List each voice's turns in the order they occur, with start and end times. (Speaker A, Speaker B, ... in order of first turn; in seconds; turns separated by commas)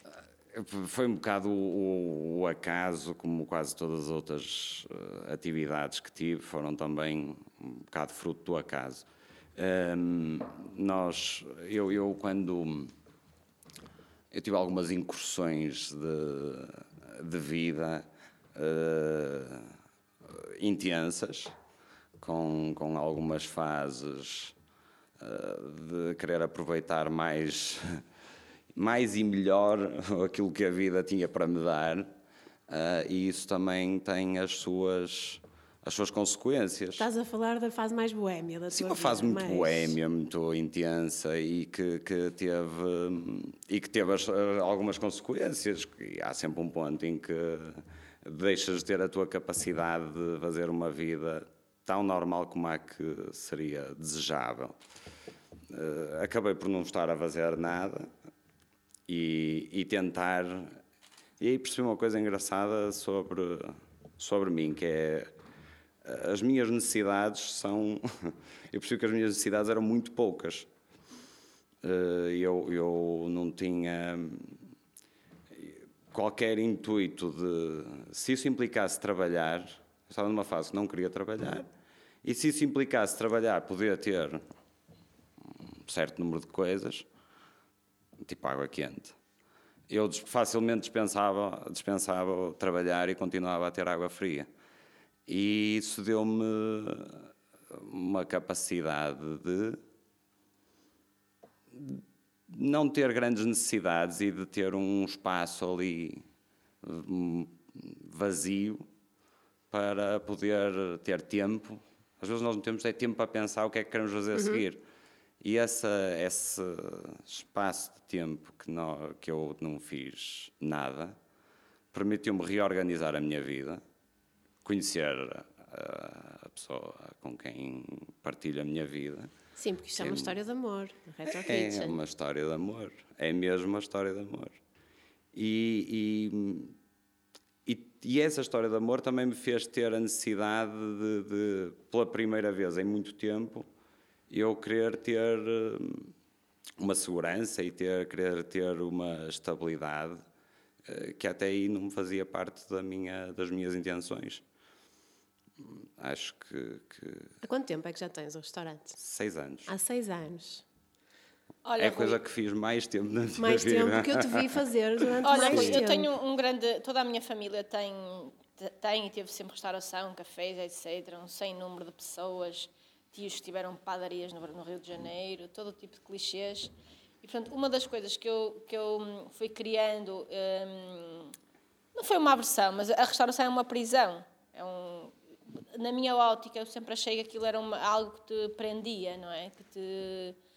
Speaker A: 0.5-12.9, Speaker A: 14.3-21.5, Speaker A: 22.2-24.5, Speaker A: 25.2-28.0, Speaker A: 28.7-32.1, Speaker A: 32.7-37.1, Speaker B: 37.0-40.0, Speaker A: 38.7-54.8, Speaker A: 55.7-58.1, Speaker A: 59.1-60.8, Speaker A: 61.4-65.3, Speaker A: 66.0-70.7, Speaker A: 71.8-74.7, Speaker A: 75.5-81.7, Speaker A: 82.2-84.4, Speaker A: 85.5-87.1, Speaker A: 88.2-89.2, Speaker A: 89.9-94.5, Speaker A: 95.3-99.8, Speaker A: 101.7-106.2, Speaker A: 106.8-108.8, Speaker A: 109.7-114.8, Speaker A: 115.4-121.2, Speaker A: 121.9-123.8, Speaker A: 124.6-129.3, Speaker B: 129.6-132.0, Speaker A: 130.0-130.4, Speaker A: 131.2-134.6, Speaker A: 135.3-136.8, Speaker A: 137.6-143.7, Speaker A: 144.3-146.1, Speaker A: 146.8-150.2, Speaker A: 150.8-154.4, Speaker A: 155.6-157.3, Speaker B: 157.4-159.0, Speaker A: 159.0-159.7, Speaker B: 159.7-160.6, Speaker C: 161.6-162.2, Speaker A: 161.8-164.6, Speaker B: 163.4-166.1, Speaker C: 165.2-181.3, Speaker A: 165.3-165.8, Speaker C: 181.9-190.4